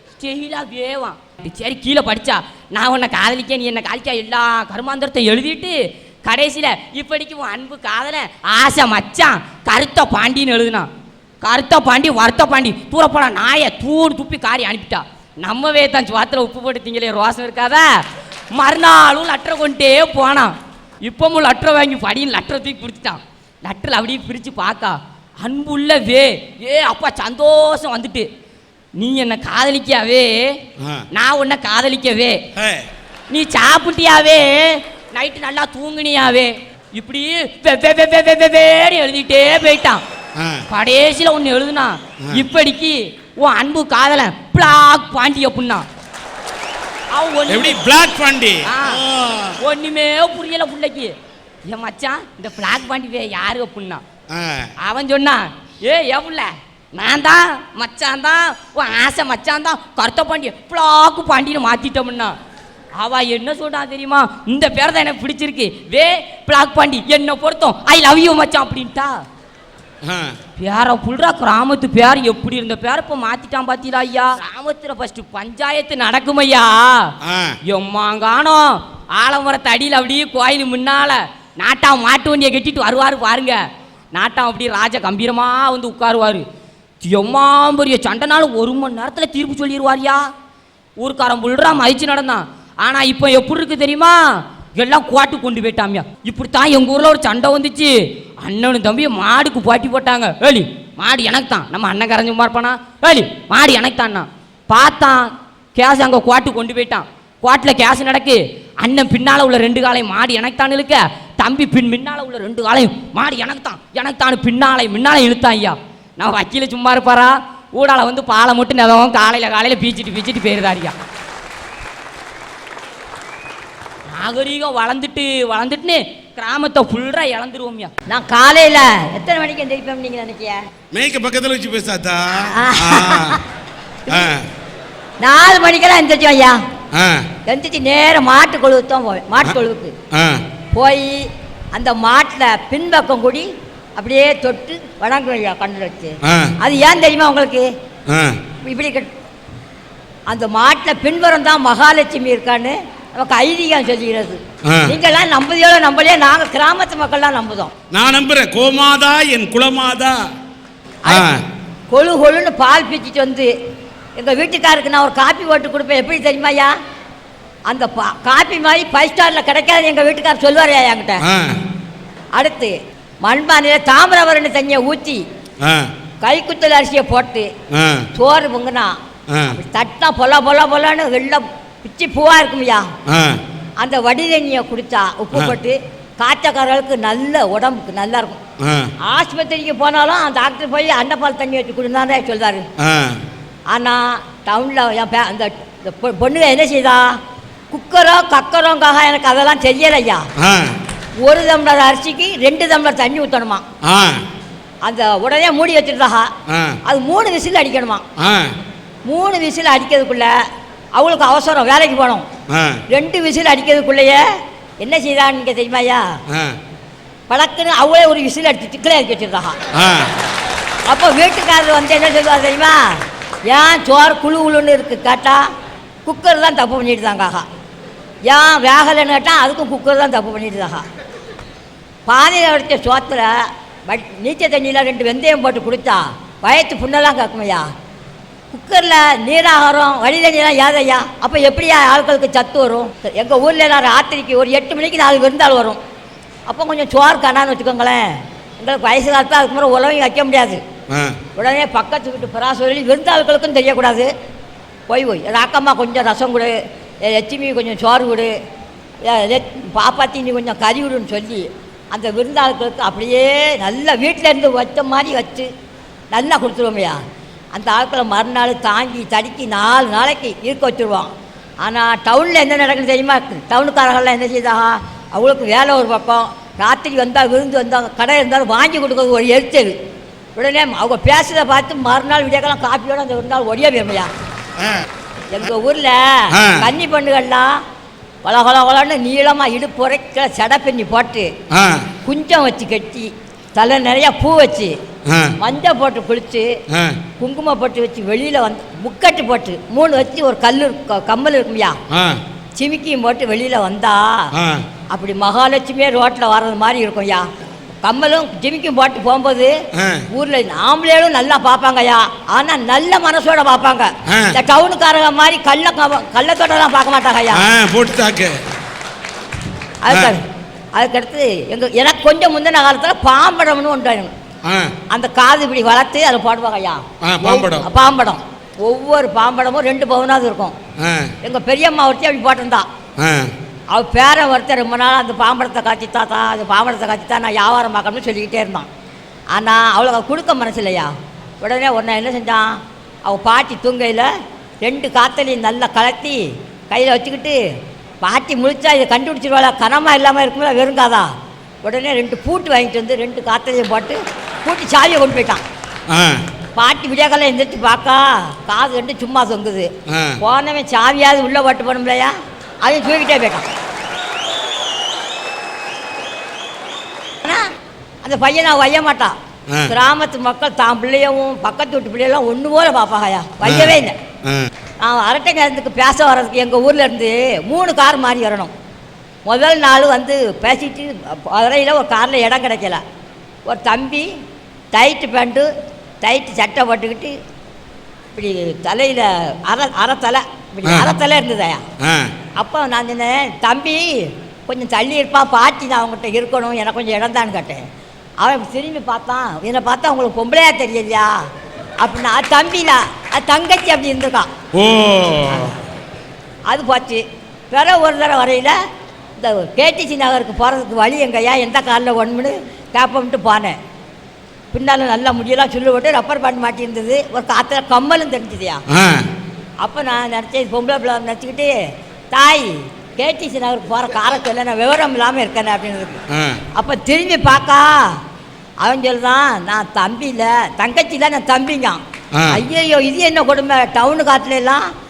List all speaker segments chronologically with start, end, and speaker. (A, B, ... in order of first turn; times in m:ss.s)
0:00.2-0:10.9 A
0:11.4-0:18.0 A
0:18.5-0:28.3 A
0:29.0-0:30.6 A
0:30.8-0:31.1 B
0:31.1-0:32.4 A
0:32.6-0:32.9 B
0:33.3-0:40.0 A
0:40.4-0:40.6 B
0:40.7-0:45.9 A
0:47.1-0:47.8 A
0:47.5-0:49.6 B
0:48.6-0:49.0 A
0:49.6-0:51.1 A
0:51.7-0:54.0 A
0:54.3-0:54.7 B
0:54.8-1:02.4 A
1:03.0-1:09.2 A
1:10.0-1:10.4 B
1:10.6-1:17.1 A
1:17.2-1:17.6 B
1:17.7-1:23.6 A
1:24.1-1:26.5 A
1:27.0-1:30.3 A
1:31.0-2:01.0 A
2:04.1-2:07.9 A
2:08.1-2:10.6 C
2:10.9-2:13.4 B
2:12.5-2:13.4 C
2:14.1-2:14.4 B
2:15.2-2:16.6 C
2:16.9-2:17.2 B
2:17.5-2:20.0 C
2:20.1-2:20.4 B
2:20.7-2:27.7 C
2:26.2-2:26.5 B
2:28.1-2:28.4 B
2:28.6-2:29.1 C
2:30.3-2:37.7 C
2:34.7-2:35.0 B
2:37.9-2:40.2 B
2:41.1-2:41.4 B
2:41.9-2:43.5 C
2:44.2-2:46.7 C
2:47.7-2:51.2 C
2:51.2-2:51.6 B
2:52.3-2:55.2 C
2:55.6-2:55.9 B
2:56.2-2:57.5 C
2:57.7-2:58.1 B
2:58.1-2:58.9 C
2:59.3-2:59.6 B
2:59.5-3:02.9 C
3:03.1-3:03.4 B
3:03.8-3:08.4 C
3:08.6-3:08.9 B
3:09.0-3:12.7 C
3:12.8-3:13.2 B
3:13.7-3:17.2 C
3:17.7-3:20.3 C
3:20.4-3:20.7 B
3:21.2-3:23.6 C
3:23.8-3:24.2 B
3:24.8-3:26.3 C
3:26.5-3:26.8 B
3:26.8-3:28.0 C
3:28.2-3:28.6 B
3:29.0-3:30.3 C
3:30.9-3:32.3 C
3:32.5-3:32.8 B
3:32.9-3:34.2 C
3:34.8-3:36.1 C
3:36.3-3:36.6 B
3:37.3-3:39.6 C
3:39.8-3:40.1 B
3:40.9-3:45.4 C
3:46.1-3:47.4 C
3:48.3-3:50.8 C
3:52.1-3:53.4 C
3:53.9-3:57.7 C
3:58.5-4:05.8 C
4:06.5-4:08.1 C
4:08.6-4:10.6 C
4:10.9-4:11.2 B
4:11.4-4:14.1 C
4:14.9-4:18.3 C
4:19.0-4:25.5 C
4:26.1-4:27.0 C
4:27.5-4:31.1 C
4:31.6-4:39.7 C
4:40.4-4:44.1 C
4:45.3-4:47.6 C
4:46.3-4:46.7 B
4:48.2-4:51.3 C
4:51.5-4:51.9 B
4:52.0-4:54.8 C
4:55.1-4:55.3 B
4:55.4-4:56.5 C
4:56.7-4:57.0 B
4:57.2-5:01.8 C
5:01.9-5:02.2 B
5:02.6-5:04.3 C
5:04.4-5:04.6 B
5:04.9-5:07.3 C
5:07.8-5:09.5 C
5:09.8-5:10.0 B
5:10.1-5:17.4 C
5:14.1-5:14.4 B
5:17.3-5:18.4 B
5:19.8-5:20.2 C
5:19.9-5:20.2 B
5:20.8-5:24.1 C
5:24.4-5:24.7 B
5:24.9-5:30.6 C
5:27.0-5:27.7 B
5:30.8-5:31.1 B
5:31.2-5:32.7 C
5:33.0-5:33.3 B
5:33.7-5:38.7 C
5:39.3-5:42.5 C
5:43.0-5:44.1 C
5:44.6-5:47.4 C
5:48.0-5:51.1 C
5:51.6-5:55.4 C
5:55.9-5:56.2 B
5:56.6-5:59.7 C
5:59.9-6:00.2 B
6:00.2-6:03.5 C
6:08.0-6:09.1 C
6:09.7-6:14.0 C
6:13.4-6:14.5 B
6:14.8-6:18.5 C
6:19.2-6:22.8 C
6:23.5-6:24.1 C
6:24.7-6:25.5 C
6:26.0-6:27.1 C
6:28.2-6:31.6 C
6:30.6-6:30.9 B
6:31.8-6:32.1 B
6:32.4-6:33.9 C
6:34.5-6:37.6 C
6:38.2-6:41.2 C
6:41.8-6:44.3 C
6:44.6-6:45.5 B
6:46.5-6:48.6 C
6:49.2-6:53.6 C
6:54.5-6:58.6 C
6:58.7-6:59.1 B
6:59.6-7:01.5 C
7:02.1-7:06.0 C
7:06.1-7:06.4 B
7:06.5-7:08.0 C
7:08.6-7:14.7 C
7:12.1-7:12.4 B